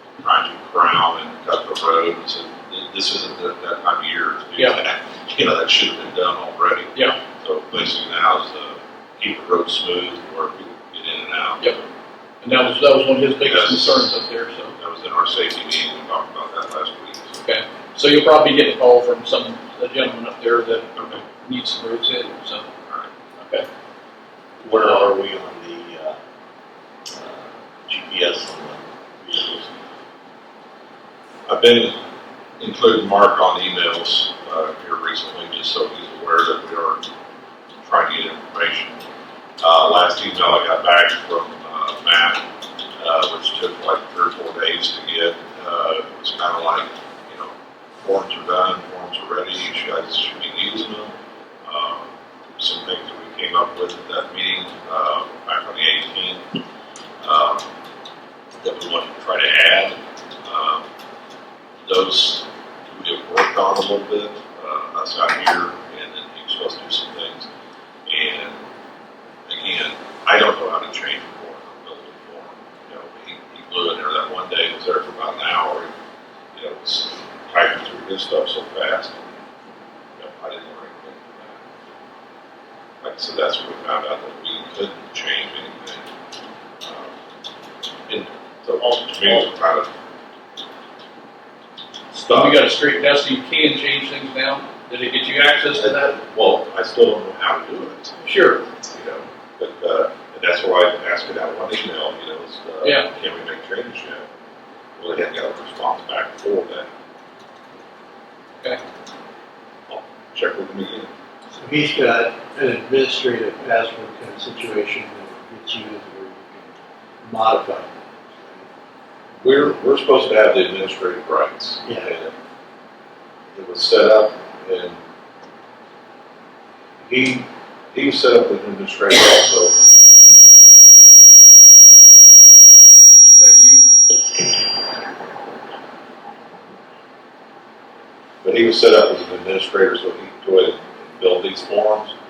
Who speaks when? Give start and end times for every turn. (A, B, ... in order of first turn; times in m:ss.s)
0:00.2-0:11.8 A
0:12.4-0:14.8 B
0:13.4-0:14.2 A
0:14.8-0:17.4 A
0:17.4-0:22.7 B
0:21.0-0:21.2 A
0:23.4-0:23.7 B
0:24.6-0:26.2 C
0:27.1-0:29.7 C
0:31.5-0:32.0 A
0:32.6-0:37.0 A
0:37.8-0:39.0 A
0:39.6-0:42.4 A
0:43.0-0:56.5 A
0:57.2-0:57.7 A
0:58.6-1:00.9 A
1:01.9-1:07.5 A
1:08.1-1:08.6 A
1:09.5-1:15.9 A
1:16.5-1:19.2 A
1:20.2-1:21.6 A
1:23.0-1:26.1 A
1:26.8-1:27.1 A
1:28.1-1:29.9 A
1:28.8-1:29.5 C
1:32.1-1:32.6 A
1:32.2-1:36.2 B
1:35.7-1:38.2 A
1:38.2-1:38.6 B
1:38.8-1:44.3 A
1:42.8-1:43.1 B
1:45.0-1:46.9 A
1:49.9-1:51.1 A
1:51.5-1:58.7 D
1:59.4-2:02.3 A
2:01.8-2:02.1 D
2:03.6-2:05.0 A
2:07.0-2:09.7 A
2:13.4-2:13.9 B
2:18.4-2:22.1 A